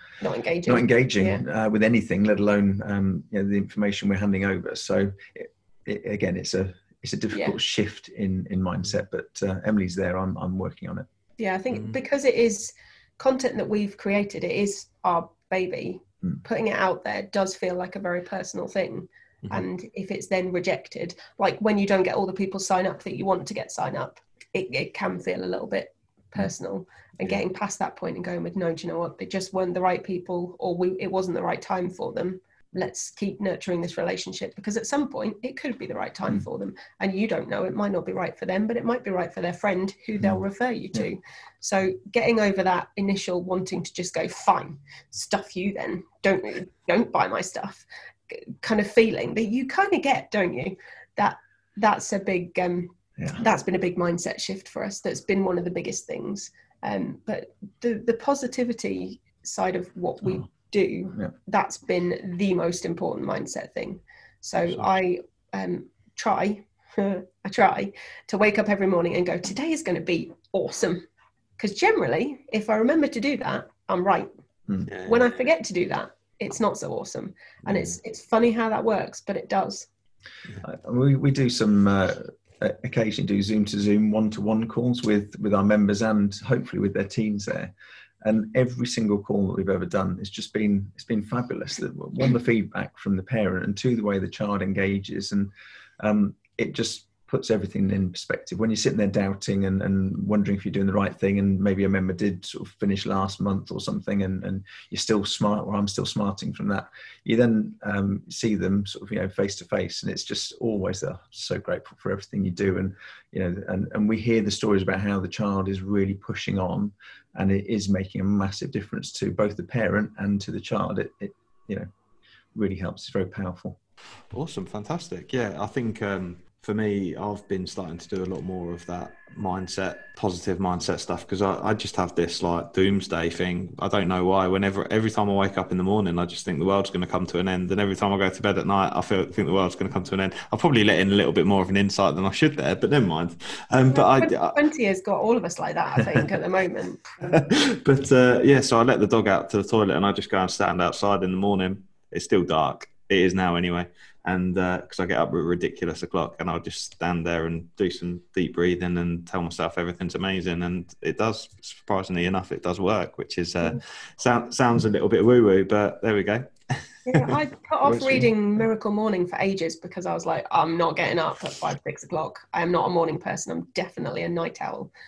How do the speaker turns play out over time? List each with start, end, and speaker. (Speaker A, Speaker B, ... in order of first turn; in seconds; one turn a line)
Speaker A: 0.2-1.4
Speaker B: 0.7-11.1
Speaker A: 11.4-71.1
Speaker A: 71.6-74.3
Speaker C: 74.9-75.3
Speaker A: 75.0-79.9
Speaker B: 80.6-121.9
Speaker B: 122.5-123.8
Speaker C: 124.3-144.6
Speaker A: 143.9-147.1
Speaker C: 147.2-167.4
Speaker A: 167.1-174.9
Speaker B: 167.9-168.3